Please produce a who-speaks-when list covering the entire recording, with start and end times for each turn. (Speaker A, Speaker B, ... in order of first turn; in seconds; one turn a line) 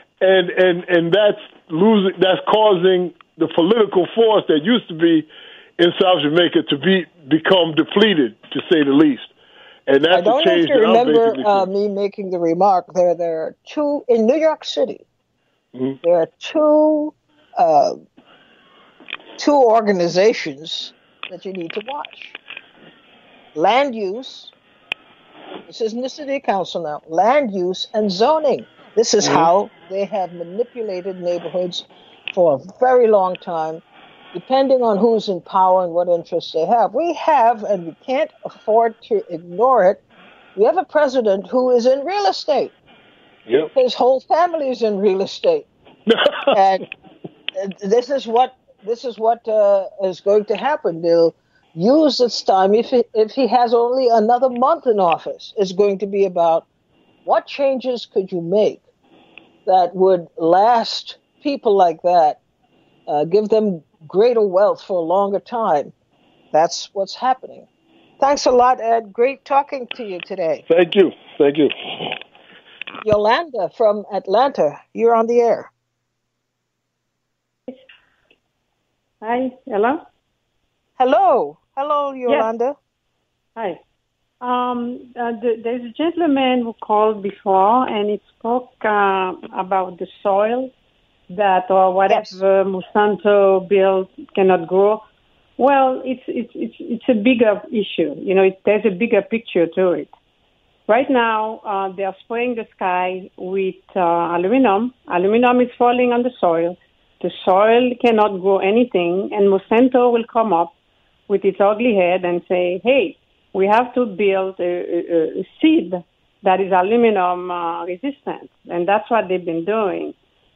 Speaker A: 0.2-9.3
Speaker A: 9.9-11.7
Speaker B: 10.1-15.0
Speaker B: 16.0-18.0
Speaker B: 19.4-22.4
Speaker B: 23.5-24.5
Speaker B: 25.7-33.8
Speaker A: 29.2-29.5
Speaker B: 34.3-40.0
Speaker B: 40.5-42.7
Speaker B: 43.7-45.7
Speaker A: 46.1-46.6
Speaker B: 46.5-46.9
Speaker B: 47.5-56.7
Speaker B: 57.2-58.8
Speaker B: 59.7-62.4
Speaker B: 63.1-65.9
Speaker B: 66.5-67.7
Speaker B: 68.2-70.6
Speaker A: 70.7-72.2
Speaker B: 73.0-75.7
Speaker C: 79.2-80.0
Speaker B: 81.0-82.8
Speaker C: 83.6-83.8
Speaker C: 84.4-90.7
Speaker C: 91.3-95.0
Speaker B: 92.1-92.4
Speaker C: 95.6-100.1
Speaker C: 100.9-110.7
Speaker C: 111.3-120.1